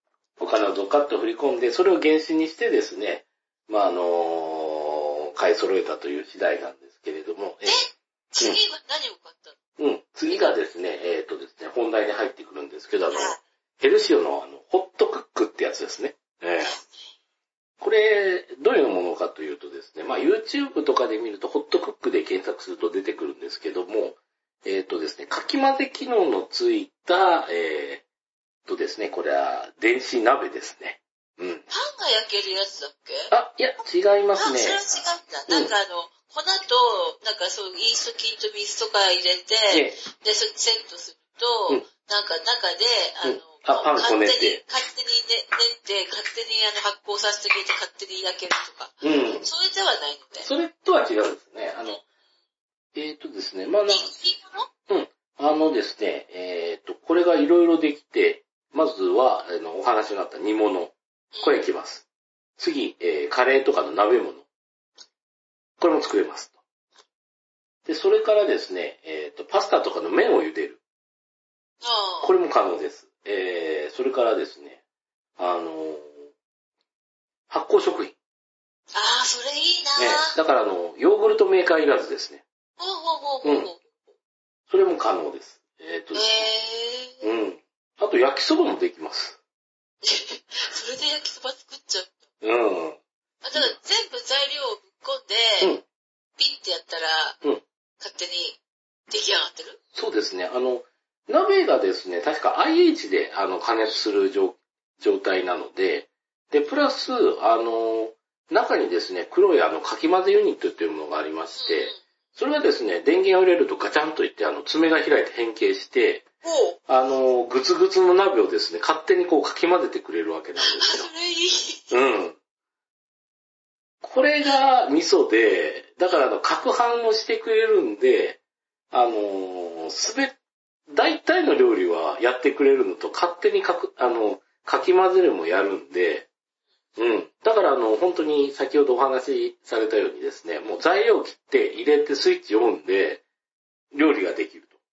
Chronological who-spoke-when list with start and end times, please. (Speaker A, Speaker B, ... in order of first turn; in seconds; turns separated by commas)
Speaker A: 0.4-7.8, Speaker B: 7.6-9.6, Speaker A: 9.8-16.8, Speaker B: 13.1-13.4, Speaker B: 16.6-17.1, Speaker A: 17.8-28.0, Speaker A: 28.6-31.6, Speaker B: 31.7-33.3, Speaker A: 33.3-35.7, Speaker B: 34.4-50.5, Speaker A: 39.7-40.0, Speaker A: 43.2-44.6, Speaker A: 49.0-49.5, Speaker A: 50.4-52.0, Speaker A: 52.9-54.1, Speaker B: 53.9-54.7, Speaker A: 54.9-62.0, Speaker B: 61.3-61.6, Speaker A: 62.6-64.4, Speaker A: 65.8-66.5, Speaker A: 67.8-70.8, Speaker B: 71.8-72.3, Speaker A: 72.2-74.8, Speaker A: 75.4-76.2, Speaker A: 77.5-78.2, Speaker B: 78.9-80.3, Speaker A: 80.0-82.4, Speaker B: 82.8-84.0, Speaker A: 83.4-83.7, Speaker A: 84.7-86.5, Speaker B: 86.1-87.2, Speaker A: 87.2-89.4, Speaker B: 90.0-92.2, Speaker A: 92.4-93.0, Speaker B: 93.4-95.7, Speaker B: 96.4-97.4, Speaker B: 98.0-98.6, Speaker B: 99.1-99.8, Speaker A: 99.9-116.2, Speaker B: 111.6-112.0, Speaker B: 116.4-116.8, Speaker A: 116.9-121.1, Speaker B: 120.6-121.9, Speaker A: 121.9-122.4, Speaker A: 124.0-128.4, Speaker A: 128.9-130.3, Speaker A: 130.9-136.3, Speaker A: 137.0-143.2, Speaker A: 143.9-144.7